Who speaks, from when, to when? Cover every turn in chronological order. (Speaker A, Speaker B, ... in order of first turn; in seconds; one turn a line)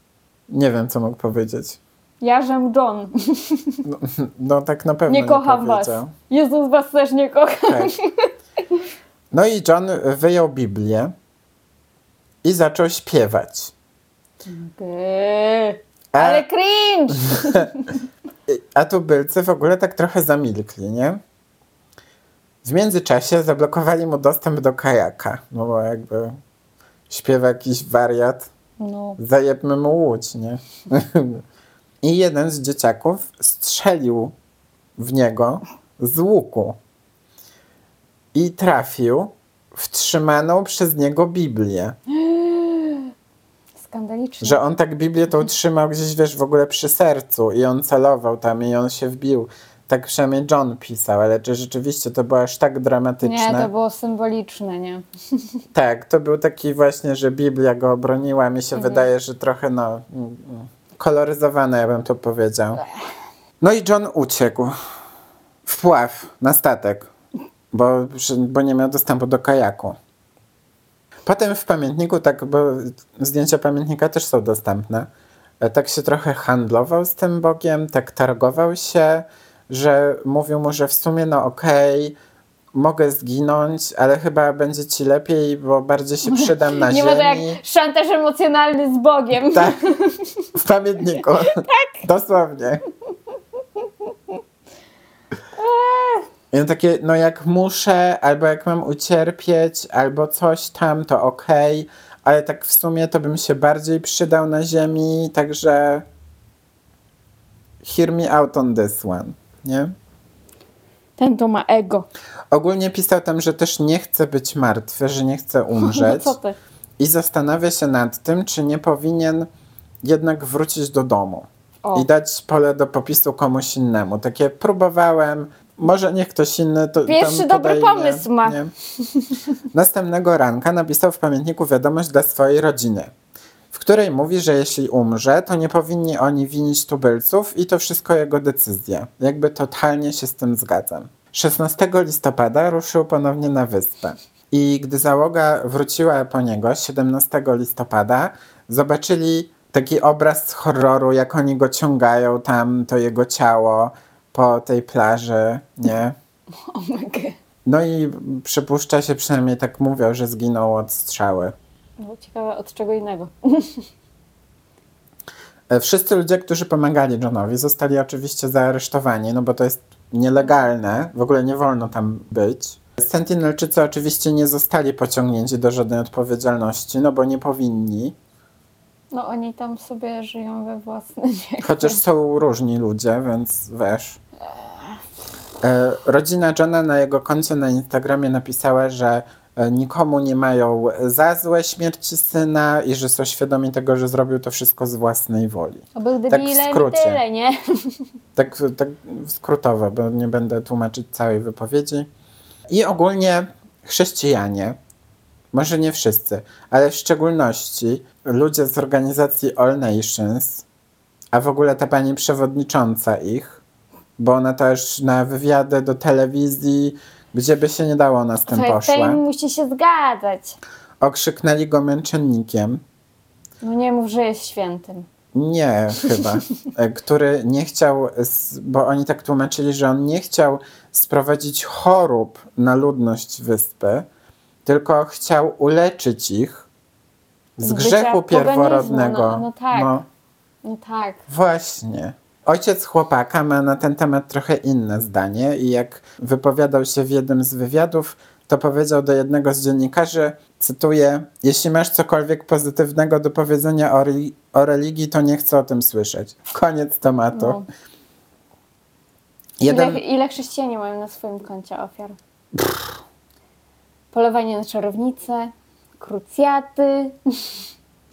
Speaker A: 0.5-1.8
Speaker B: 2.2-3.8
Speaker A: 3.8-6.1
Speaker B: 5.1-8.8
Speaker A: 7.7-7.9
Speaker A: 9.3-11.1
Speaker A: 12.4-13.7
Speaker B: 14.4-18.0
Speaker A: 16.1-16.4
Speaker A: 17.2-17.7
Speaker A: 18.5-21.2
Speaker A: 22.6-26.4
Speaker A: 27.1-28.5
Speaker B: 28.8-29.2
Speaker A: 29.2-31.4
Speaker A: 32.0-34.3
Speaker A: 35.0-36.8
Speaker A: 38.3-42.0
Speaker B: 42.1-43.1
Speaker B: 43.8-44.6
Speaker A: 44.4-53.7
Speaker B: 53.2-55.6
Speaker A: 55.7-62.8
Speaker B: 58.7-59.1
Speaker A: 63.6-64.8
Speaker A: 65.7-67.1
Speaker A: 67.7-70.0
Speaker A: 71.2-75.1
Speaker A: 75.6-82.2
Speaker A: 82.7-87.6
Speaker B: 86.2-90.5
Speaker A: 89.5-89.8
Speaker A: 90.5-92.8
Speaker B: 91.5-92.0
Speaker B: 93.8-94.4
Speaker B: 95.5-96.3
Speaker A: 96.5-106.0
Speaker A: 107.8-109.9
Speaker B: 111.2-112.1
Speaker A: 112.5-116.3
Speaker B: 115.7-116.6
Speaker A: 117.0-119.5
Speaker A: 120.0-128.7
Speaker B: 127.0-129.4
Speaker A: 129.7-133.1
Speaker A: 133.7-156.2
Speaker B: 156.5-157.4
Speaker A: 157.6-161.5
Speaker B: 162.0-163.9
Speaker A: 165.7-178.1
Speaker B: 179.1-182.0
Speaker A: 181.6-184.2
Speaker A: 185.6-197.2
Speaker B: 195.9-198.0
Speaker A: 198.3-202.1
Speaker A: 202.7-204.8
Speaker A: 205.5-210.6
Speaker A: 211.3-213.6
Speaker A: 214.2-219.2
Speaker B: 218.5-220.6
Speaker A: 221.0-222.8
Speaker B: 223.6-225.1
Speaker A: 225.3-234.1
Speaker A: 234.7-236.7
Speaker A: 237.6-240.1
Speaker B: 237.6-239.9
Speaker B: 240.6-241.2
Speaker A: 241.3-257.6
Speaker B: 257.3-257.6
Speaker A: 259.6-260.0
Speaker B: 259.7-262.2
Speaker A: 262.5-262.9
Speaker B: 264.1-267.6